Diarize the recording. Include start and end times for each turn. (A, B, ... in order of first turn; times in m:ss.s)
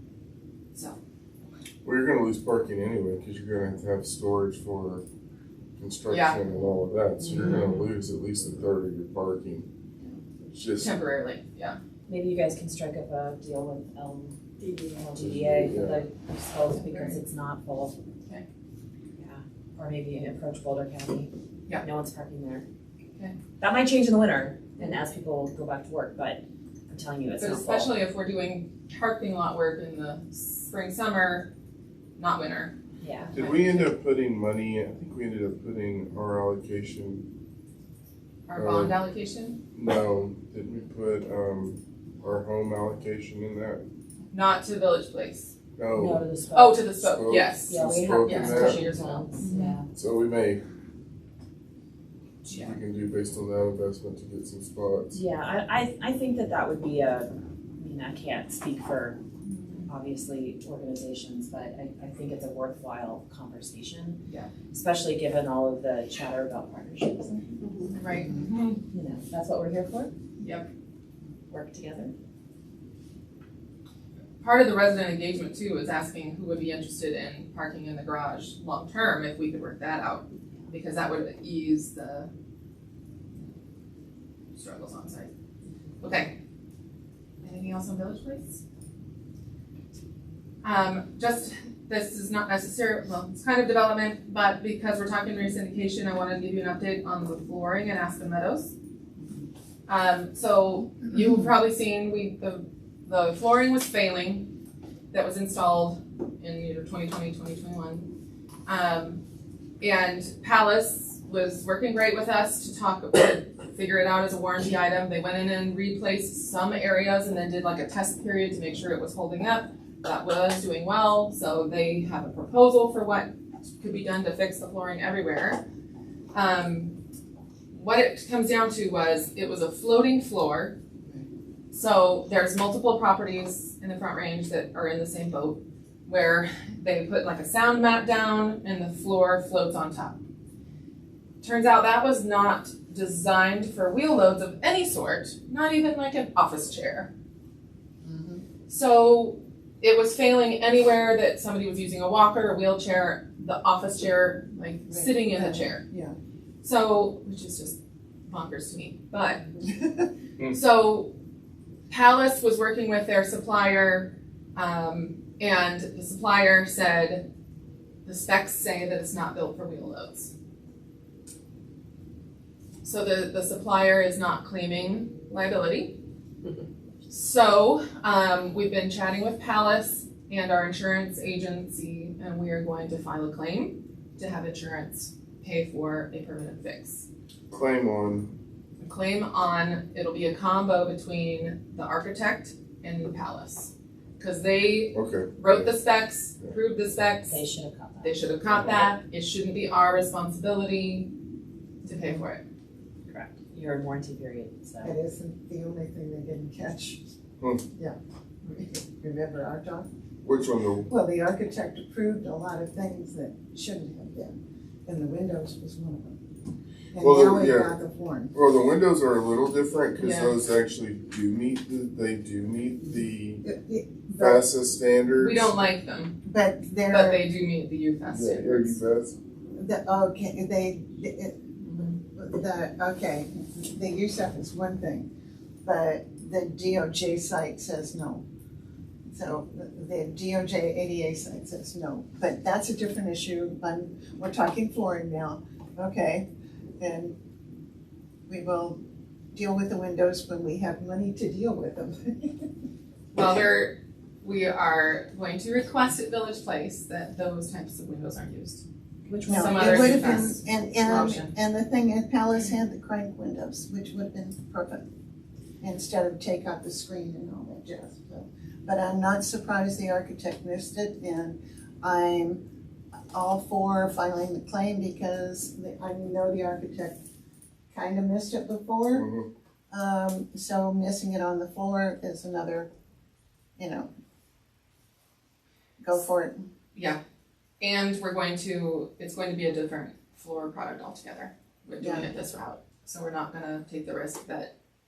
0:01.8-0:05.0 A
0:05.8-0:09.7 A
0:06.1-0:06.8 B
0:10.5-0:10.9 A
0:10.8-0:11.8 B
0:12.1-0:18.0 C
0:15.2-0:16.0 A
0:16.7-0:17.2 B
0:19.2-0:22.6 C
0:23.6-0:27.9 C
0:27.4-0:31.5 B
0:32.2-0:32.7 B
0:33.0-0:33.3 C
0:33.3-0:37.3 A
0:33.4-0:33.8 B
0:38.5-0:39.6 B
0:38.6-0:39.0 A
0:39.7-0:43.8 A
0:44.3-0:45.5 B
0:45.8-0:46.2 A
0:45.9-0:47.0 C
0:46.5-0:49.8 B
0:47.0-0:48.9 A
0:47.7-0:49.9 C
0:49.9-0:50.6 A
0:52.4-0:52.8 B
0:52.5-0:55.1 A
0:55.1-0:59.2 C
0:59.4-0:59.9 B
0:59.9-1:07.9 C
1:04.3-1:04.5 B
1:08.0-1:08.8 B
1:08.9-1:10.1 C
1:10.4-1:10.7 B
1:11.5-1:12.1 C
1:14.4-1:22.3 B
1:24.6-1:25.3 B
1:26.0-1:26.4 B
1:27.4-1:28.6 B
1:30.6-1:38.7 B
1:39.9-1:44.5 B
1:45.1-1:48.1 B
1:48.7-1:49.2 B
1:49.8-2:05.6 B
2:06.3-2:07.0 B
2:07.7-2:10.8 B
2:11.7-2:20.2 B
2:21.4-2:27.1 B
2:28.0-2:28.4 D
2:28.7-2:35.8 B
2:34.9-2:36.2 D
2:36.6-2:39.4 B
2:39.6-2:40.1 D
2:40.5-2:41.1 B
2:41.9-2:47.2 B
2:48.0-2:50.3 B
2:52.8-2:56.0 B
2:57.1-3:07.1 B
3:07.5-3:08.3 A
3:08.8-3:17.4 B
3:14.9-3:15.8 A
3:17.3-3:18.3 C
3:18.0-3:21.1 B
3:18.5-3:18.9 A
3:21.8-3:22.4 B
3:23.1-3:24.9 C
3:24.8-3:27.0 D
3:27.8-3:29.9 D
3:30.2-3:30.9 A
3:30.9-3:34.4 D
3:34.9-3:36.2 D
3:36.9-3:38.3 D
3:37.0-3:37.8 A
3:38.3-3:43.4 A
3:40.0-3:40.4 B
3:43.4-3:44.4 D
3:44.1-3:45.5 A
3:45.2-3:46.2 B
3:46.2-3:47.2 D
3:46.9-3:48.8 B
3:48.1-3:49.2 A
3:49.6-3:55.1 D
3:51.6-3:51.9 B
3:55.6-3:58.2 D
3:59.0-4:06.2 D
4:06.8-4:07.2 D
4:08.3-4:08.8 D
4:09.3-4:12.5 D
4:13.1-4:18.6 B
4:19.1-4:20.1 C
4:19.2-4:21.3 B
4:19.2-4:24.8 D
4:25.6-4:32.4 D
4:33.1-4:37.0 D
4:37.7-4:39.0 D
4:38.9-4:39.3 A
4:39.7-4:42.7 D
4:43.6-4:43.9 D
4:45.8-4:46.4 D
4:46.7-4:47.0 B
4:47.6-4:54.5 B
4:51.8-4:52.1 D